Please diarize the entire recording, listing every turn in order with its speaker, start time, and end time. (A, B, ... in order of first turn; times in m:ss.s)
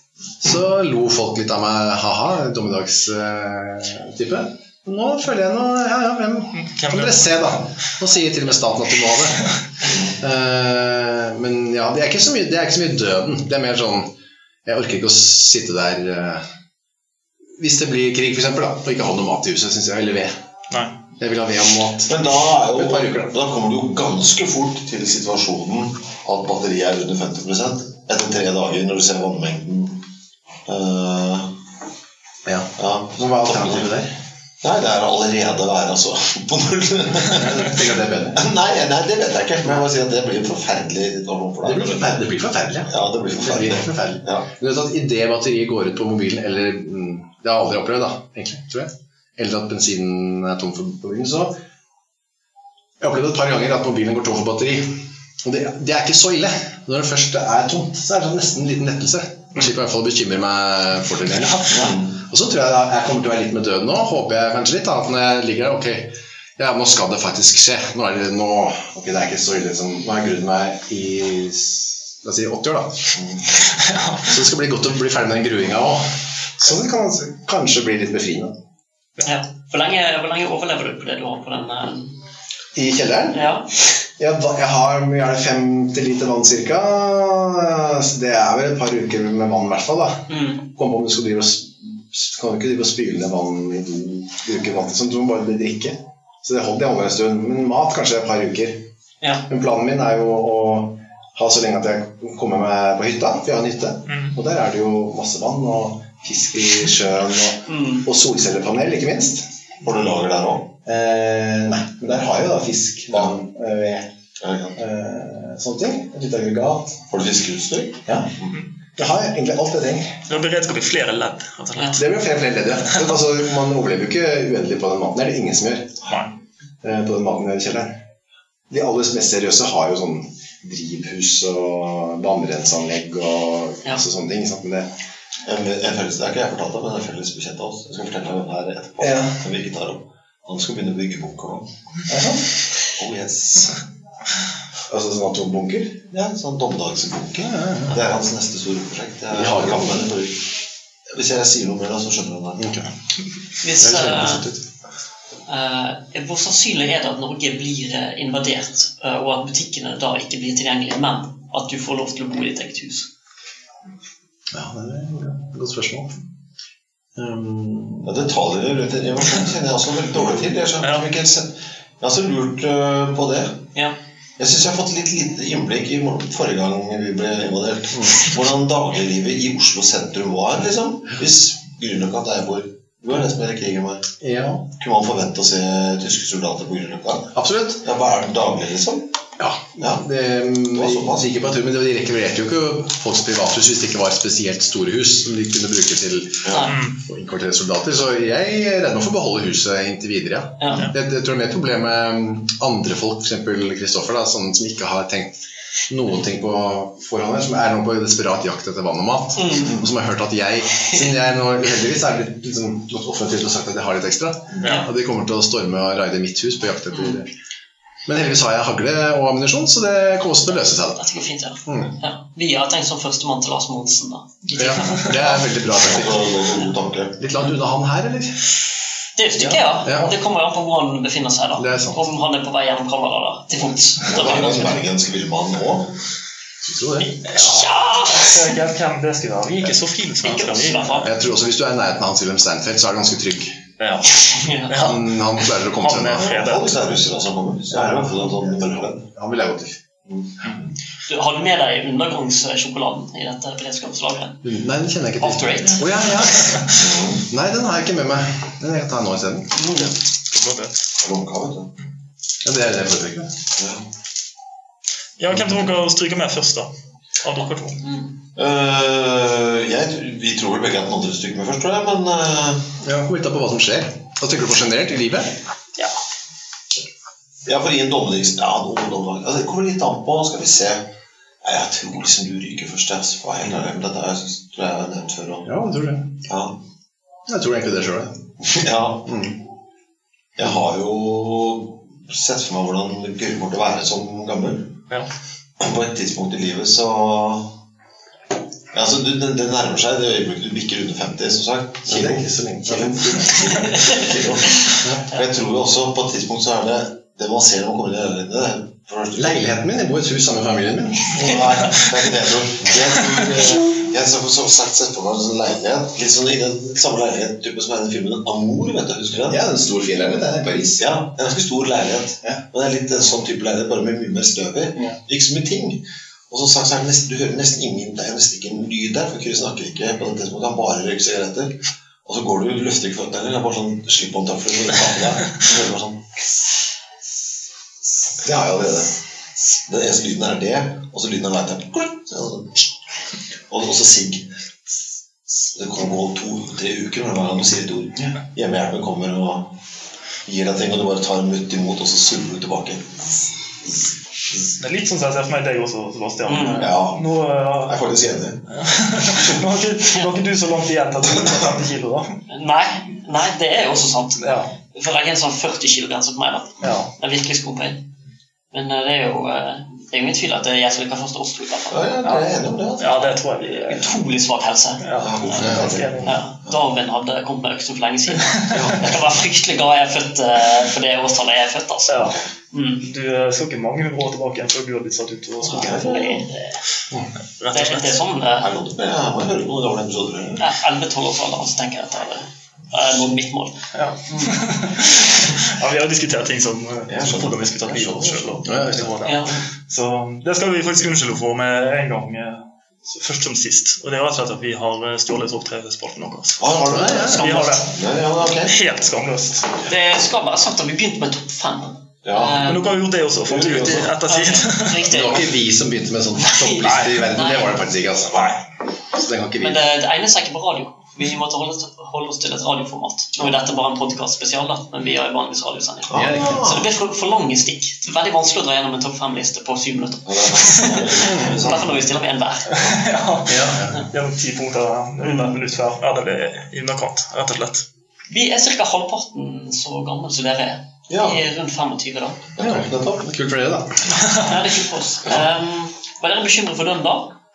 0:00.4-0:09.6 A
0:06.6-0:07.6 B
0:10.1-0:14.1 A
0:14.6-0:16.4 A
0:17.6-0:20.3 A
0:21.2-0:22.2 A
0:22.1-0:30.0 C
0:22.7-0:23.3 A
0:30.6-0:31.5 C
0:32.4-0:34.1 A
0:32.8-0:33.9 C
0:34.6-0:42.3 C
0:37.3-0:38.5 A
0:41.6-0:51.6 A
0:42.8-0:44.5 C
0:53.0-1:13.2 A
1:01.5-1:01.8 B
1:01.7-1:02.1 C
1:13.2-1:13.4 C
1:13.7-1:14.3 B
1:14.2-1:18.5 A
1:19.2-1:22.1 D
1:22.7-1:23.5 A
1:23.3-1:23.7 D
1:24.2-1:38.8 A
1:30.3-1:30.6 D
1:39.5-1:49.5 A
1:44.1-1:44.3 B
1:47.7-1:48.0 D
1:49.8-1:50.7 C
1:50.8-1:54.1 A
1:54.4-1:54.8 C
1:54.8-1:57.0 A
1:57.1-1:58.5 C
1:58.1-1:58.3 A
1:59.0-2:00.2 A
2:00.3-2:02.0 B
2:01.9-2:06.0 A
2:06.8-2:07.9 A
2:08.7-2:14.9 A
2:15.4-2:21.7 C
2:19.0-2:19.4 A
2:22.1-2:22.6 A
2:22.9-2:23.8 C
2:24.9-2:26.0 A
2:26.1-2:30.5 C
2:27.4-2:28.0 A
2:29.3-2:30.1 A
2:31.1-2:32.8 C
2:32.6-2:32.9 A
2:33.6-2:34.4 D
2:33.8-2:34.6 A
2:35.5-2:43.1 D
2:44.5-2:46.2 A
2:47.2-2:48.2 A
2:48.0-2:53.6 C
2:50.8-2:51.1 B
2:54.4-3:04.1 C
2:57.9-2:58.2 A
3:04.2-3:04.7 A
3:04.7-3:09.1 C
3:07.3-3:07.9 A
3:09.4-3:25.3 A
3:10.7-3:11.3 C
3:16.4-3:16.7 C
3:16.5-3:16.8 D
3:16.7-3:17.0 B
3:20.6-3:20.8 D
3:25.9-3:37.3 A
3:29.4-3:29.7 D
3:34.6-3:34.9 D
3:36.9-3:37.2 D
3:38.0-3:41.0 A
3:40.9-3:44.3 D
3:41.6-3:41.9 A
3:44.5-3:46.5 A
3:44.6-3:45.1 B
3:45.2-3:47.2 C
3:47.2-3:48.4 A
3:49.2-3:54.8 D
3:49.4-3:50.1 A
3:51.6-3:52.0 A
3:54.0-3:55.9 C
3:56.6-3:57.2 A
3:57.2-3:58.5 D
3:57.2-4:01.1 B
4:00.2-4:01.1 D
4:01.0-4:03.6 A
4:03.8-4:05.1 B
4:04.3-4:04.7 D
4:04.7-4:06.4 A
4:05.7-4:07.1 B
4:06.2-4:09.0 C
4:07.7-4:10.6 A
4:11.1-4:14.4 D
4:14.4-4:19.6 A
4:15.2-4:15.9 D
4:16.2-4:16.7 B
4:16.7-4:17.2 C
4:19.6-4:19.9 D
4:20.3-4:20.7 B
4:21.0-4:21.7 C
4:22.4-4:23.3 A
4:23.6-4:23.9 C
4:25.2-4:26.7 B
4:27.2-4:27.8 B
4:27.8-4:28.1 D
4:28.4-4:32.7 C
4:32.8-4:35.4 A
4:37.4-4:40.9 C
4:41.4-4:45.5 C
4:45.4-4:46.1 A
4:46.2-4:46.6 C
4:47.3-4:49.4 A
4:48.5-4:49.2 C
4:50.4-4:54.8 C
4:55.6-4:57.6 C
4:58.7-5:09.4 C
5:01.8-5:05.0 A
5:09.2-5:11.3 A
5:11.1-5:19.4 C
5:19.3-5:20.8 A
5:20.8-5:36.0 C
5:38.2-5:38.9 A
5:39.5-5:42.7 C
5:43.5-5:44.3 C
5:45.3-5:49.5 C
5:50.2-5:54.5 C
5:54.5-5:57.8 B
5:56.3-5:56.7 D
5:56.6-5:57.0 C
5:57.6-5:58.4 C
5:58.5-6:02.2 B
6:02.3-6:04.2 D
6:04.2-6:04.5 B
6:04.7-6:07.8 D
6:06.6-6:06.9 B
6:08.5-6:11.9 D
6:11.7-6:13.1 C
6:12.8-6:13.9 B
6:13.4-6:14.8 D
6:14.8-6:16.2 B
6:15.0-6:16.6 C
6:16.0-6:22.9 D
6:18.3-6:18.6 B
6:18.5-6:19.0 C
6:21.9-6:22.2 B
6:22.8-6:26.1 B
6:25.4-6:26.6 D
6:25.4-6:26.3 C
6:27.4-6:28.0 B
6:27.5-6:28.5 D
6:28.4-6:30.5 C
6:30.4-6:34.4 D
6:33.7-6:46.4 B
6:36.9-6:38.6 C
6:38.4-6:38.9 A
6:39.0-6:39.4 D
6:46.4-6:48.6 C
6:46.7-6:47.3 A
6:47.0-6:49.6 B
6:49.6-6:52.7 D
6:52.0-6:52.6 C
6:52.4-6:54.9 B
6:53.2-6:54.0 C
6:54.0-6:55.3 D
6:54.8-6:58.3 A
6:56.2-6:57.6 D
6:56.6-6:57.1 B
6:58.1-6:58.4 B
6:58.9-6:59.6 A
6:59.4-7:12.7 D
7:05.9-7:06.7 C
7:05.9-7:06.5 A
7:10.0-7:11.9 C
7:11.0-7:11.4 A
7:12.5-7:17.6 B
7:13.2-7:13.9 A
7:15.0-7:15.4 D
7:18.1-7:22.2 D
7:20.9-7:21.2 C
7:22.4-7:23.2 C
7:22.4-7:24.0 A
7:24.1-7:27.1 D